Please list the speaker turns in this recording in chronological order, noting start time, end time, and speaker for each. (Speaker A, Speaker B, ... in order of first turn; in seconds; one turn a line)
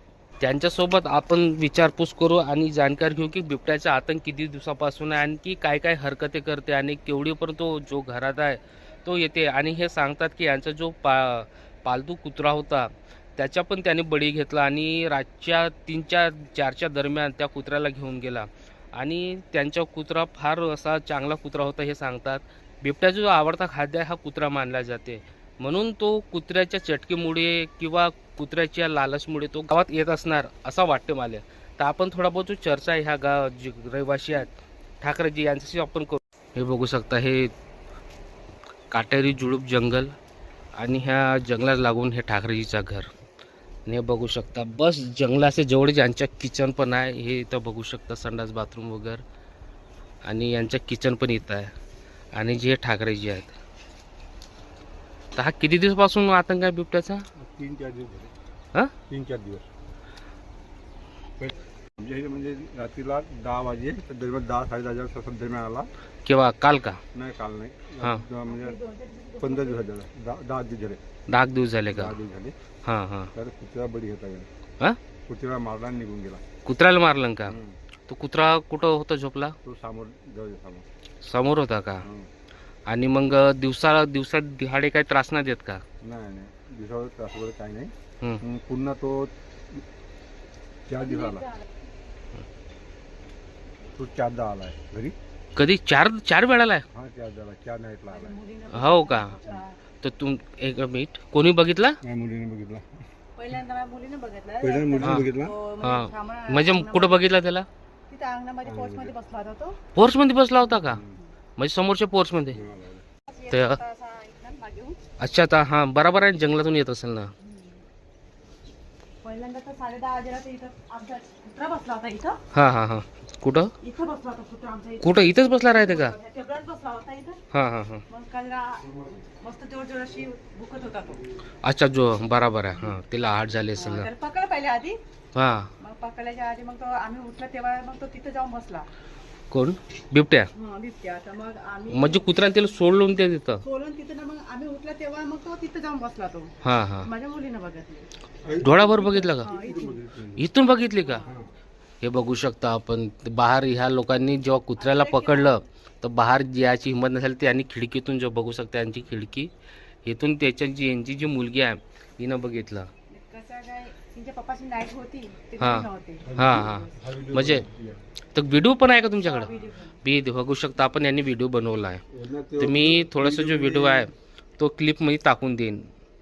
Speaker A: 0.4-37.5
Speaker A: 38.9-40.1
Speaker A: 40.8-43.1
Speaker A: 43.9-49.2
Speaker A: 50.2-51.7
Speaker A: 52.3-53.5
Speaker A: 55.3-57.2
Speaker B: 57.3-58.3
Speaker B: 59.1-59.6
Speaker B: 61.4-65.9
Speaker A: 66.2-67.0
Speaker B: 67.1-68.8
Speaker C: 68.5-69.8
Speaker B: 69.4-71.0
Speaker A: 71.3-72.2
Speaker B: 71.9-72.5
Speaker A: 72.8-73.3
Speaker B: 73.3-74.5
Speaker B: 75.2-76.4
Speaker A: 76.6-77.6
Speaker B: 77.5-77.8
Speaker A: 78.1-79.5
Speaker B: 79.6-80.8
Speaker A: 81.2-82.0
Speaker B: 82.0-82.3
Speaker A: 82.9-85.8
Speaker B: 86.0-89.8
Speaker B: 90.9-91.5
Speaker B: 94.0-95.1
Speaker A: 95.5-96.8
Speaker B: 96.9-98.3
Speaker C: 98.1-99.8
Speaker A: 98.7-99.4
Speaker A: 100.0-102.0
Speaker B: 102.0-103.0
Speaker C: 103.3-107.2
Speaker B: 104.6-105.5
Speaker A: 105.8-107.7
Speaker C: 108.1-109.8
Speaker B: 108.6-109.1
Speaker A: 109.9-111.0
Speaker B: 110.8-111.2
Speaker A: 111.6-112.6
Speaker B: 112.5-113.0
Speaker C: 113.3-115.0
Speaker A: 113.5-113.8
Speaker A: 115.2-117.3
Speaker C: 117.4-117.8
Speaker C: 119.2-122.4
Speaker A: 122.5-123.7
Speaker C: 123.8-127.4
Speaker A: 125.0-126.1
Speaker A: 127.5-128.0
Speaker C: 128.1-128.9
Speaker C: 129.4-131.2
Speaker A: 131.6-134.1
Speaker C: 133.8-135.0
Speaker A: 135.3-135.7
Speaker C: 135.8-138.9
Speaker A: 139.5-140.5
Speaker C: 140.5-142.3
Speaker A: 141.9-143.6
Speaker C: 143.6-148.1
Speaker A: 146.6-147.1
Speaker B: 148.4-150.5
Speaker A: 148.6-149.5
Speaker C: 149.4-150.0
Speaker A: 150.4-151.3
Speaker C: 151.0-151.4
Speaker A: 152.0-159.5
Speaker C: 154.8-155.6
Speaker A: 160.0-162.9
Speaker C: 163.1-166.8
Speaker A: 165.6-167.7
Speaker B: 166.2-168.0
Speaker A: 168.3-172.0
Speaker C: 169.2-170.0
Speaker B: 172.1-174.1
Speaker A: 172.6-175.8